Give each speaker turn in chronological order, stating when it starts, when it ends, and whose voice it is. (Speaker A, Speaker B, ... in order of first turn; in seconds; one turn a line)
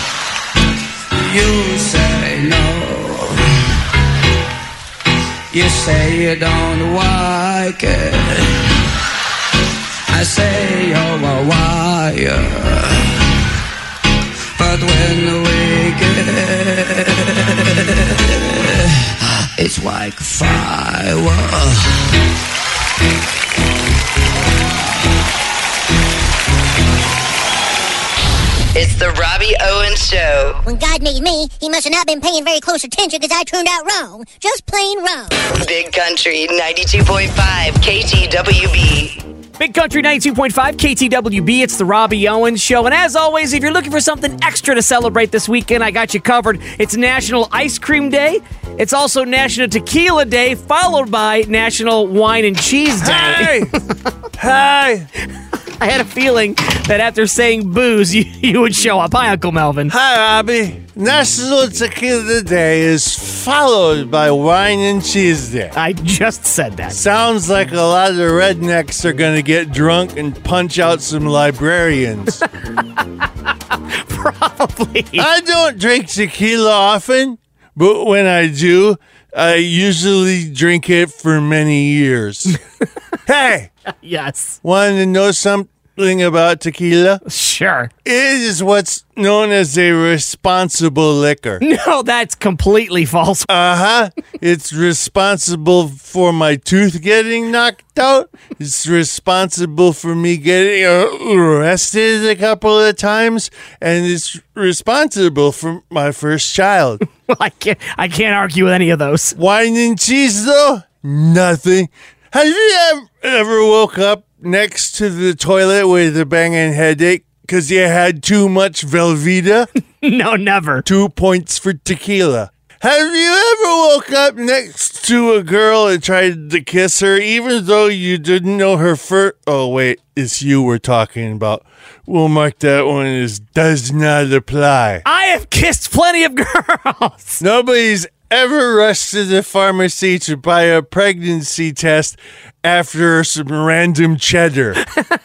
Speaker A: 1.1-3.4
Speaker A: 5.5-8.6
Speaker A: 10.1-13.2
Speaker A: 14.6-18.9
Speaker A: 19.6-22.0
Speaker B: 28.8-30.6
Speaker C: 30.7-35.3
Speaker B: 35.5-39.2
Speaker D: 39.6-53.5
Speaker E: 53.0-53.7
Speaker E: 54.4-55.1
Speaker D: 55.8-59.9
Speaker E: 59.9-65.7
Speaker D: 65.7-67.0
Speaker E: 66.9-72.4
Speaker D: 73.9-75.2
Speaker E: 75.2-82.6
Speaker E: 83.3-83.7
Speaker D: 84.0-84.6
Speaker E: 84.6-87.2
Speaker D: 87.3-87.9
Speaker E: 88.0-91.6
Speaker D: 91.6-93.5
Speaker E: 93.5-107.0
Speaker D: 107.2-109.3
Speaker E: 109.4-119.7
Speaker D: 120.0-120.8
Speaker E: 120.8-135.0
Speaker D: 135.1-137.4
Speaker E: 137.4-144.8